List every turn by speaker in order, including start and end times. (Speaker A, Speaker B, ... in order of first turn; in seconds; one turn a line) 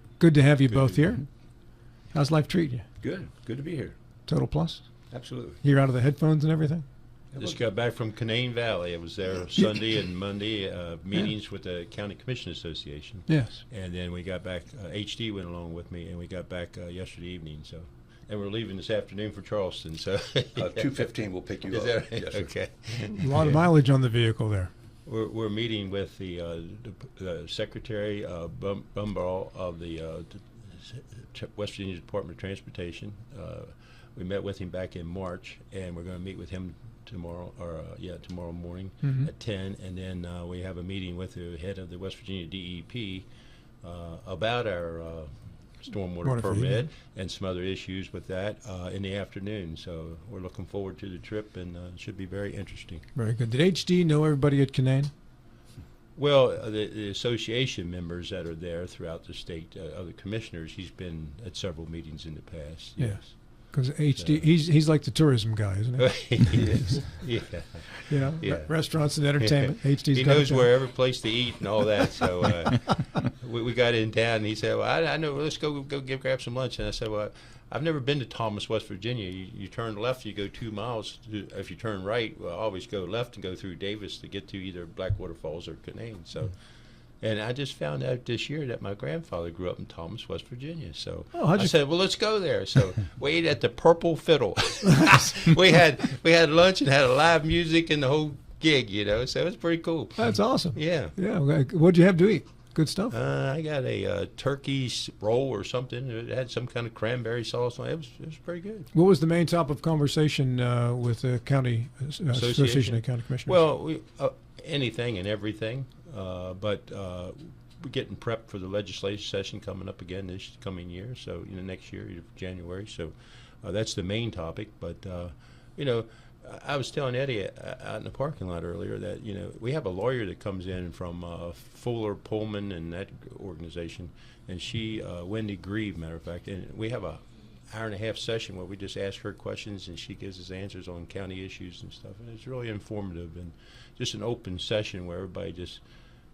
Speaker A: 0.2-1.2
Speaker B: 0.7-1.1
Speaker A: 2.1-2.9
Speaker C: 3.0-4.0
Speaker A: 4.3-4.8
Speaker C: 5.1-5.6
Speaker A: 5.6-6.8
Speaker C: 7.3-7.6
Speaker B: 7.4-20.8
Speaker A: 13.3-13.6
Speaker C: 20.6-22.5
Speaker B: 21.7-23.6
Speaker A: 23.1-24.7
Speaker B: 25.1-43.3
Speaker A: 39.0-39.3
Speaker B: 43.8-53.0
Speaker A: 46.2-46.9
Speaker A: 53.1-55.1
Speaker B: 56.2-64.5
Speaker A: 63.0-67.0
Speaker B: 66.0-86.5
Speaker A: 68.1-70.8
Speaker B: 87.2-101.1
Speaker A: 91.3-91.7
Speaker A: 100.2-103.2
Speaker B: 103.1-108.9
Speaker A: 108.9-113.6
Speaker B: 112.3-145.8